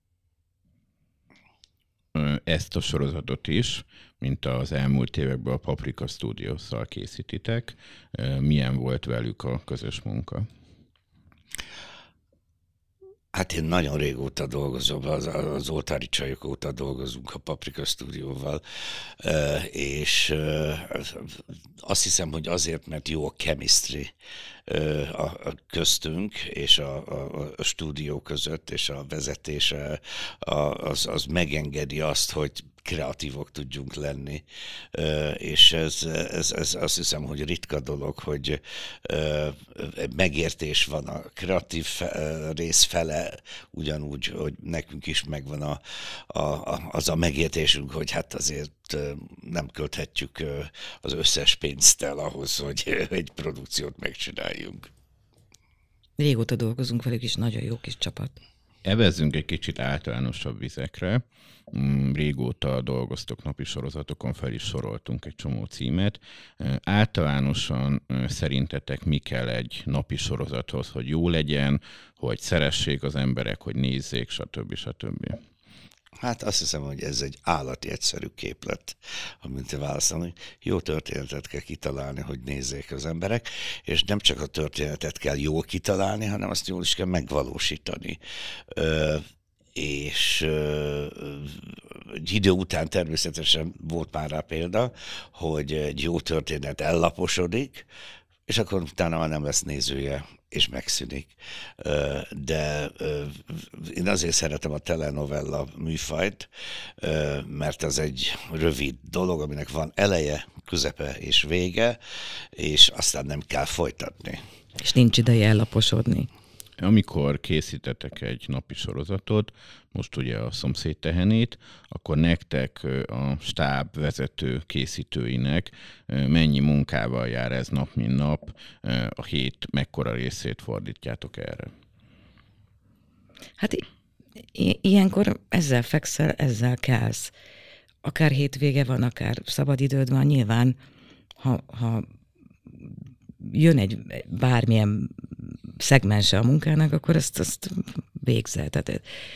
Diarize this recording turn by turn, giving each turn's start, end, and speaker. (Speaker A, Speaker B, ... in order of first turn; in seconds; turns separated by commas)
Speaker A: 2.1-10.5, Speaker B: 13.3-24.1, Speaker B: 24.7-54.9, Speaker C: 56.2-58.3, Speaker A: 58.8-75.4, Speaker B: 76.2-88.2, Speaker B: 88.7-89.2, Speaker B: 89.7-97.9, Speaker B: 98.5-112.0, Speaker B: 112.5-114.4, Speaker C: 114.8-116.3, Speaker A: 116.8-131.7, Speaker C: 133.6-133.8, Speaker C: 134.5-137.3, Speaker C: 138.0-140.8, Speaker C: 141.4-142.1, Speaker C: 143.4-149.0